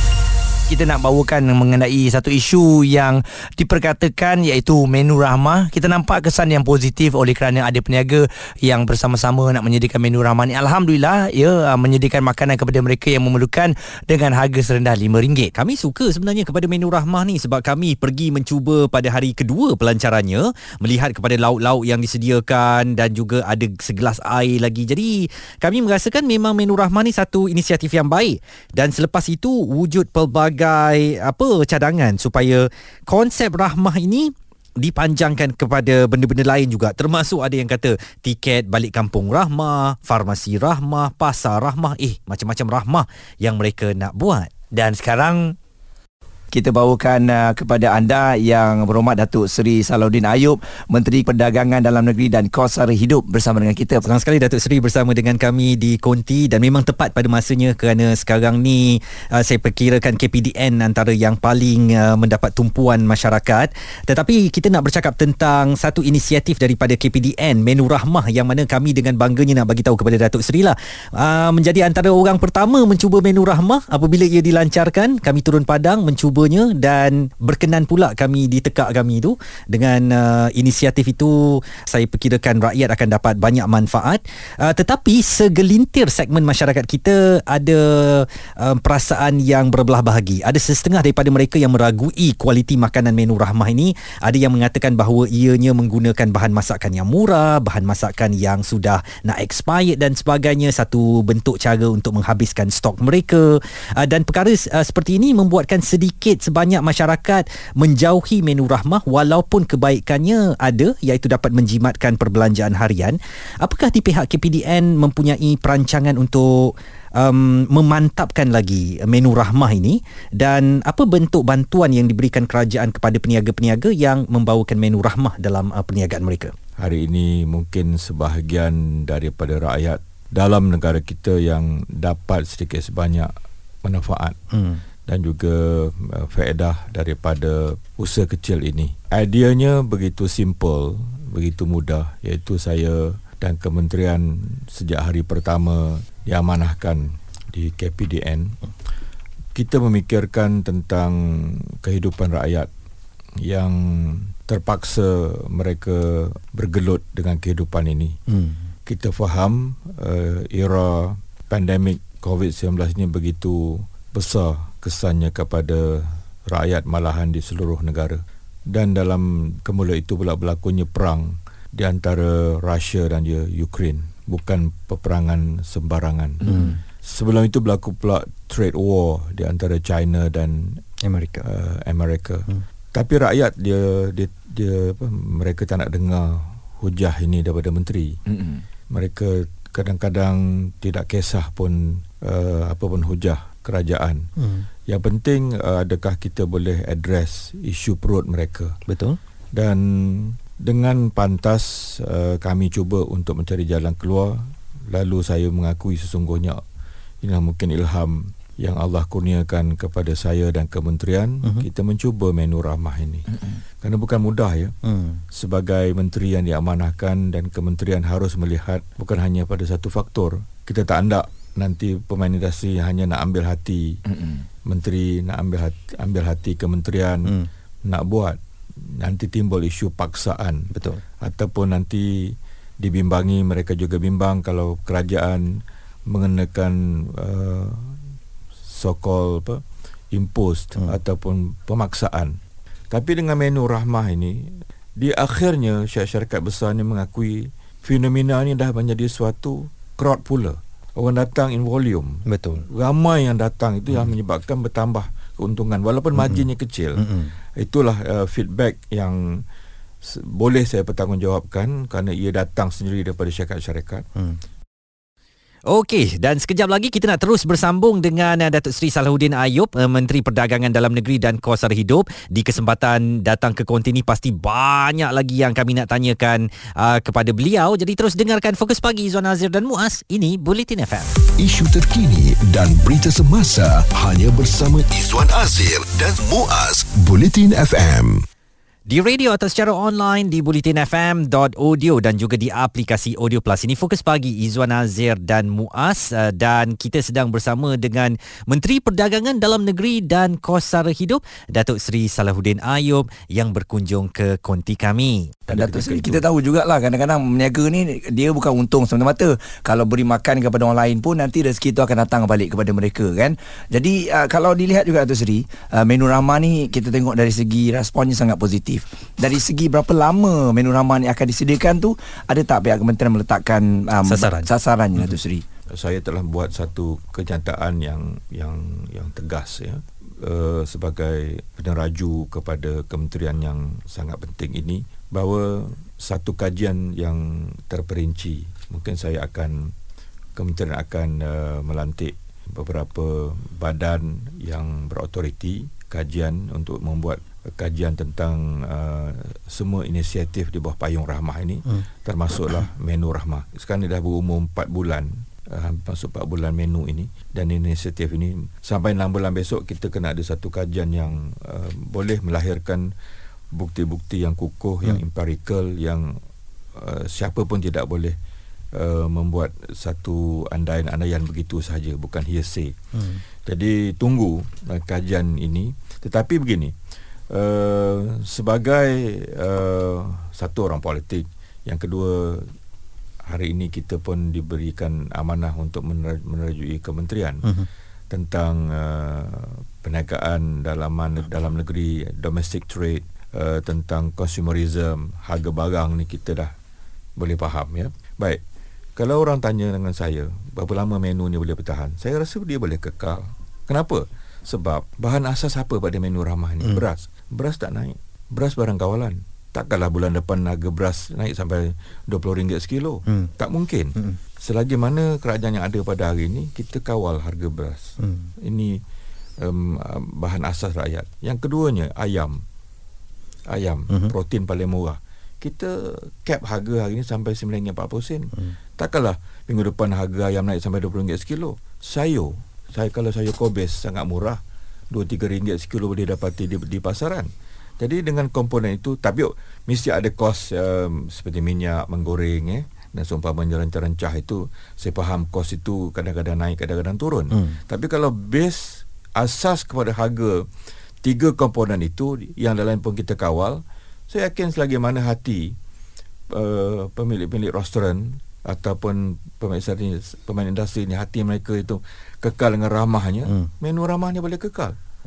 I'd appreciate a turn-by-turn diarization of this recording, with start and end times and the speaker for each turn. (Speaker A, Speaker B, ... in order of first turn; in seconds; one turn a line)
Speaker A: 0.7-15.5
Speaker B: 15.5-44.5
Speaker A: 44.7-45.5
Speaker A: 46.5-54.1
Speaker B: 54.0-126.5
Speaker C: 126.8-133.3
Speaker C: 133.8-134.4
Speaker B: 134.5-134.8
Speaker C: 135.1-148.6
Speaker C: 149.6-152.7
Speaker C: 153.4-158.2
Speaker B: 158.3-158.6
Speaker C: 158.9-176.5
Speaker A: 176.4-176.8
Speaker B: 176.4-176.8
Speaker C: 177.0-180.8
Speaker B: 181.0-181.5
Speaker C: 181.4-188.2
Speaker A: 188.3-188.6
Speaker C: 188.9-194.3
Speaker B: 194.4-194.7
Speaker C: 194.9-198.8
Speaker B: 198.9-199.2
Speaker C: 199.6-206.6
Speaker C: 207.2-214.7
Speaker B: 214.8-215.2
Speaker C: 215.3-224.0
Speaker A: 224.1-224.4
Speaker C: 224.7-227.4
Speaker C: 227.9-230.7
Speaker B: 230.7-231.0
Speaker C: 231.2-238.0
Speaker C: 238.7-239.6
Speaker C: 240.1-242.4
Speaker C: 242.9-257.1
Speaker B: 252.3-252.7
Speaker B: 256.2-256.4
Speaker B: 257.0-257.3
Speaker C: 257.6-259.4
Speaker C: 260.0-264.1
Speaker B: 265.7-281.1
Speaker D: 281.4-288.2
Speaker B: 288.9-305.4
Speaker C: 305.5-306.2
Speaker A: 305.5-325.4
Speaker B: 324.1-324.5
Speaker C: 325.7-339.7
Speaker C: 340.4-362.9
Speaker C: 363.5-366.1
Speaker C: 366.8-368.2
Speaker C: 368.7-372.8
Speaker B: 372.9-373.2
Speaker C: 373.4-376.8
Speaker C: 377.3-382.5
Speaker C: 383.3-387.5
Speaker C: 388.1-396.5
Speaker C: 397.2-398.4
Speaker C: 399.0-418.8
Speaker B: 418.0-418.3
Speaker C: 419.4-422.4
Speaker C: 423.5-450.5
Speaker B: 447.3-447.6
Speaker C: 451.0-455.6
Speaker C: 456.3-464.8